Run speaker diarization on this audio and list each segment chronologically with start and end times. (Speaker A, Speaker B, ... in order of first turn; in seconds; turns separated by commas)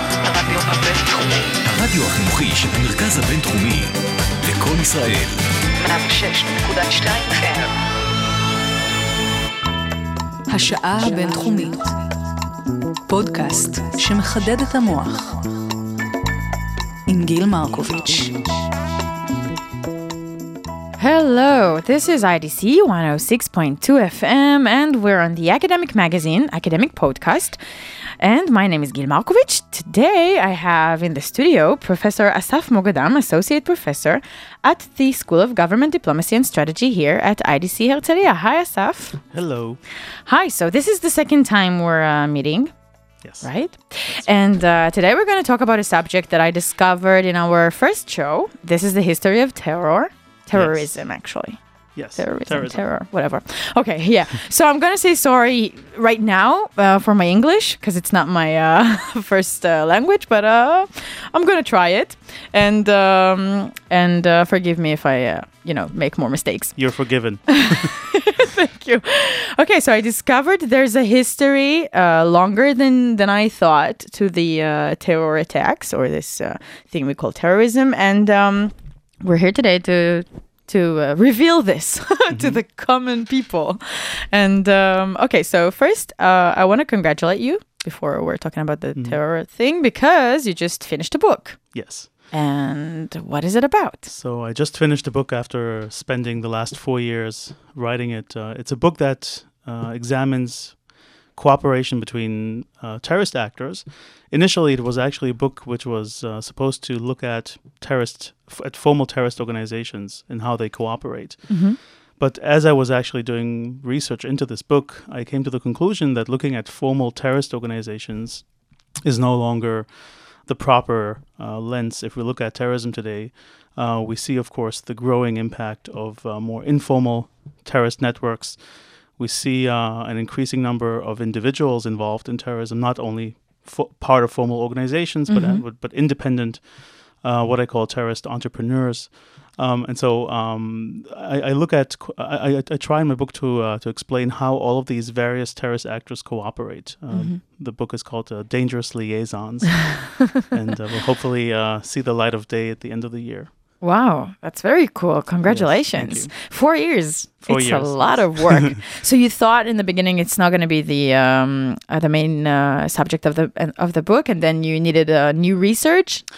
Speaker A: 0.2-1.5, Speaker B: 1.6-5.4, Speaker A: 5.8-7.7, Speaker C: 10.5-12.0, Speaker C: 13.1-15.4, Speaker C: 17.1-18.5, Speaker D: 21.0-27.6, Speaker D: 28.2-39.2, Speaker E: 39.3-39.8, Speaker D: 40.2-42.7, Speaker E: 43.2-44.2, Speaker D: 43.4-51.6, Speaker E: 50.5-50.9, Speaker E: 52.0-52.8, Speaker D: 52.1-66.9, Speaker E: 66.8-68.0, Speaker D: 67.5-94.1, Speaker E: 82.3-82.6, Speaker E: 89.0-89.2, Speaker E: 91.7-92.1, Speaker E: 94.1-118.5, Speaker D: 111.5-111.8, Speaker E: 119.0-153.5, Speaker D: 135.3-135.6, Speaker D: 147.1-147.4, Speaker D: 153.8-166.2, Speaker E: 155.4-156.3, Speaker E: 157.4-158.8